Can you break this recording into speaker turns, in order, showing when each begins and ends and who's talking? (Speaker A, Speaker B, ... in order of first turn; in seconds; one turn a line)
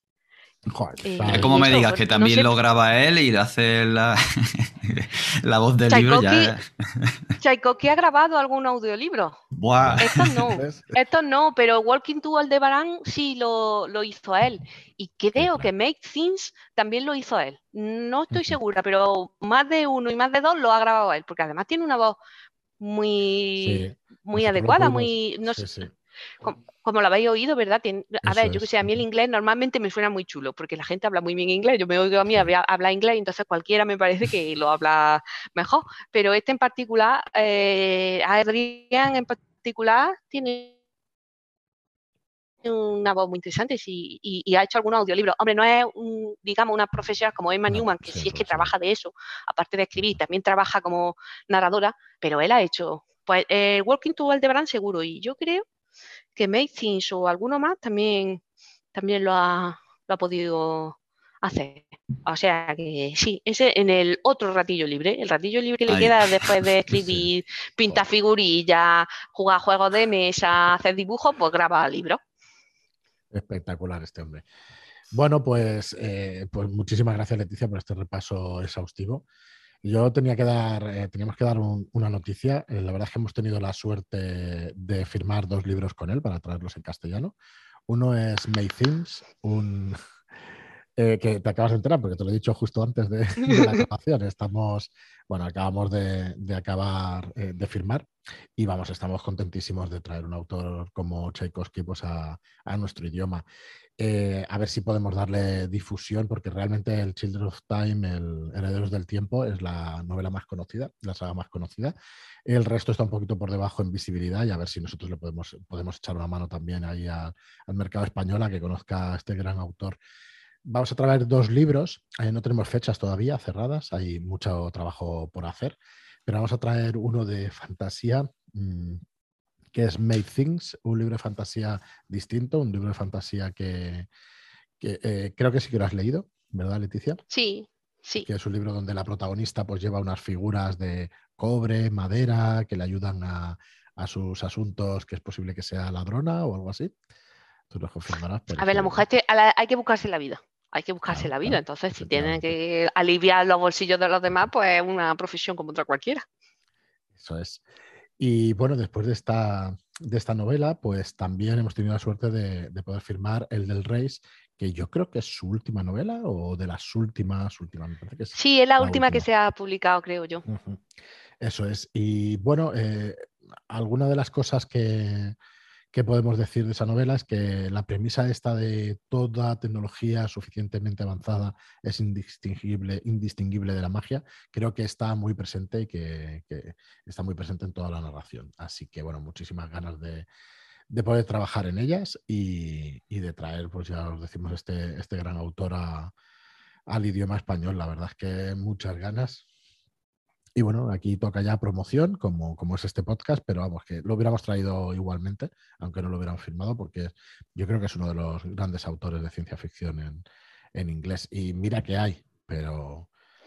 Speaker A: 0.7-1.6
Speaker B: 1.0-2.5
Speaker C: 1.3-7.2
Speaker B: 5.9-6.5
Speaker B: 7.4-9.4
Speaker C: 9.5-10.5
Speaker A: 9.8-10.9
Speaker B: 10.0-22.2
Speaker A: 15.3-15.7
Speaker A: 18.3-18.6
Speaker B: 22.8-25.7
Speaker A: 23.6-25.9
Speaker B: 26.4-40.7
Speaker A: 28.2-29.0
Speaker B: 42.6-55.6
Speaker A: 47.7-48.7
Speaker B: 56.4-58.4
Speaker B: 58.9-72.2
Speaker C: 65.9-66.7
Speaker A: 73.3-74.4
Speaker A: 75.1-79.2
Speaker A: 79.8-87.3
Speaker A: 87.9-90.0
Speaker A: 91.0-103.4
Speaker B: 93.4-93.8
Speaker A: 104.0-111.9
Speaker A: 112.5-120.0
Speaker A: 120.6-129.0
Speaker A: 129.7-134.1
Speaker A: 134.8-137.2
Speaker B: 137.3-138.3
Speaker A: 138.2-146.9
Speaker A: 147.7-149.0
Speaker B: 148.6-156.2
Speaker A: 151.1-152.6
Speaker A: 157.2-157.6
Speaker A: 158.2-169.2
Speaker B: 168.3-170.4
Speaker A: 170.4-170.8
Speaker A: 171.4-175.3
Speaker A: 175.9-190.3
Speaker A: 190.9-196.1
Speaker A: 196.9-199.4
Speaker A: 200.6-210.2
Speaker A: 210.7-213.1